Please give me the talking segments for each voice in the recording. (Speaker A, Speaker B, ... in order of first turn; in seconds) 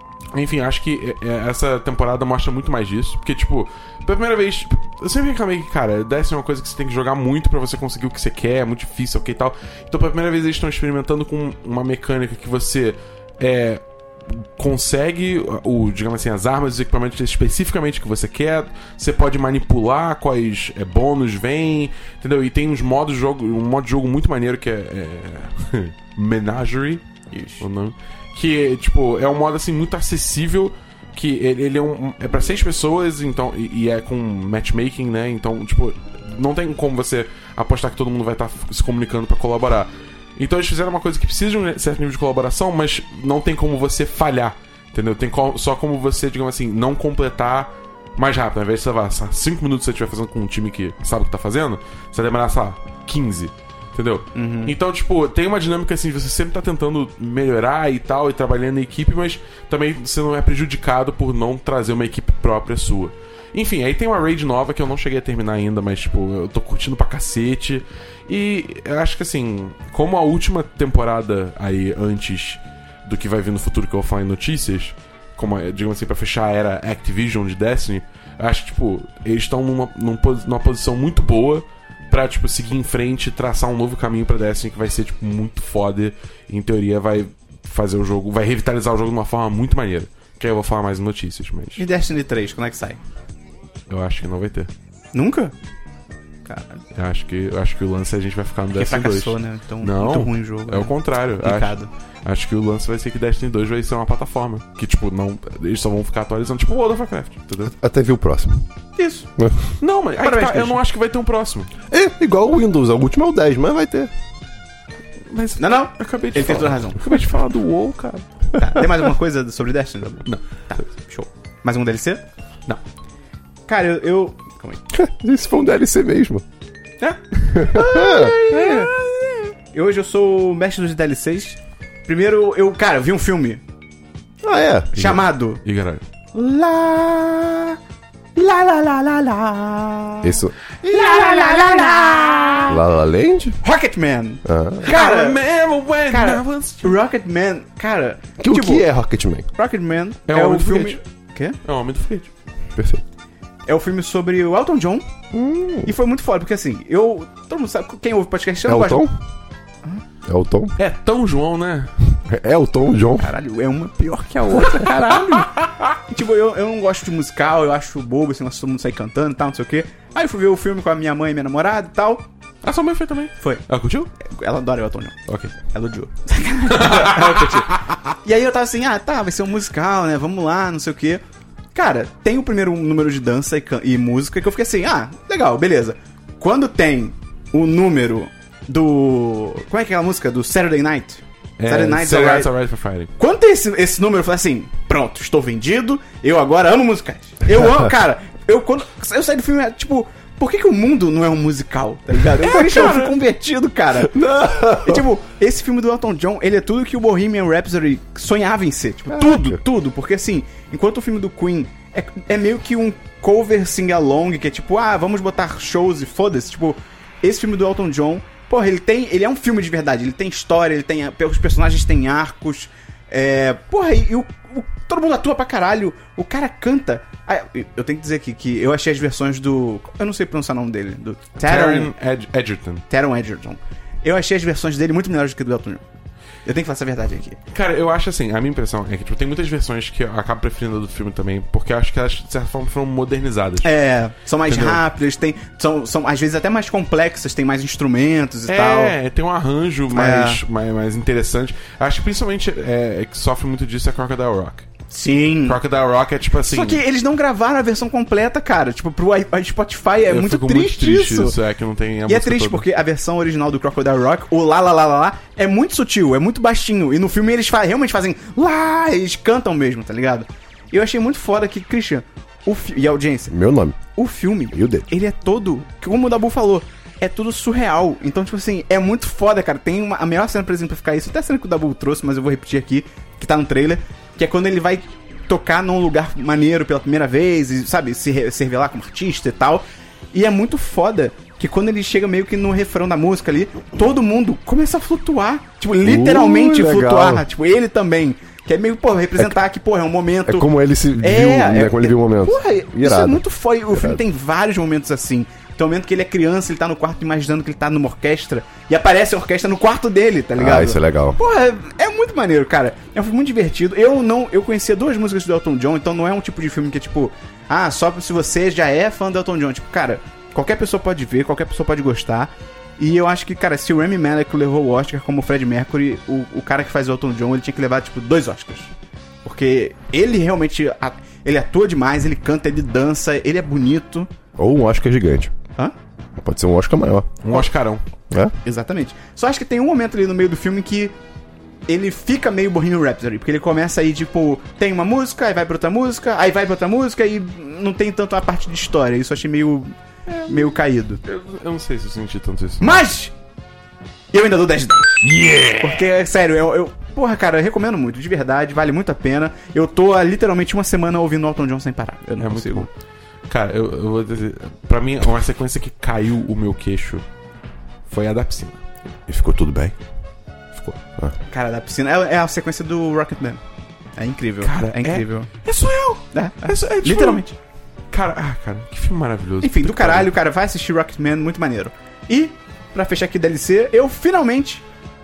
Speaker A: 0.3-27.0, 27.6-91.8, 93.9-94.7, 96.9-107.7, 109.8-111.7, 115.3-118.2, 128.5-129.5, 135.1-136.0, 140.9-142.5, 144.8-147.0, 150.3-151.0, 151.6-152.3, 160.8-161.9, 164.7-165.7, 172.6-174.1, 175.3-175.5, 176.7-177.9, 191.6-193.1, 202.4-203.2, 231.4-232.8, 237.5-243.7, 244.5-244.8, 248.5-254.7, 255.4-256.8, 260.1-262.6, 337.2-337.8, 350.1-352.8, 355.0-355.9, 362.2-362.7, 363.3-367.0, 367.9-368.6, 374.4-377.2, 377.9-380.1
Speaker B: 27.3-27.6, 54.3-54.7, 91.8-93.0, 95.1-95.5, 96.4-96.8, 98.7-101.9, 109.0-109.3, 110.2-110.8, 115.6-117.1, 118.5-122.2, 123.7-124.8, 127.0-128.9, 129.7-133.6, 134.9-135.6, 136.3-137.8, 138.3-142.8, 143.6-145.4, 146.1-148.8, 149.6-151.6, 153.7-155.1, 155.8-159.0, 163.2-172.2, 174.2-181.2, 181.7-192.5, 193.2-231.9, 232.9-235.8, 236.4-237.4, 243.6-248.9, 249.9-250.4, 254.9-255.6, 256.4-261.4, 262.1-273.3, 273.9-300.5, 301.0-328.7, 329.2-334.1, 338.4-340.9, 341.7-349.7, 350.2-351.0, 352.6-353.1, 354.1-355.1, 355.6-362.7, 371.3-373.4, 373.9-375.3, 376.1-377.3, 379.4-384.6
Speaker C: 107.7-108.7, 109.4-109.7, 111.9-114.1, 124.9-126.4, 127.5-128.3, 134.4-135.2, 140.2-140.5, 142.7-143.6, 144.4-144.9, 148.4-149.5, 152.8-153.0, 155.3-155.9, 158.7-159.2, 160.2-160.8, 162.2-163.3, 204.0-205.0, 209.1-209.6, 273.3-273.8, 274.5-274.9, 295.8-297.2, 300.2-304.0, 310.4-311.2, 334.4-335.3, 336.2-337.2, 369.1-369.8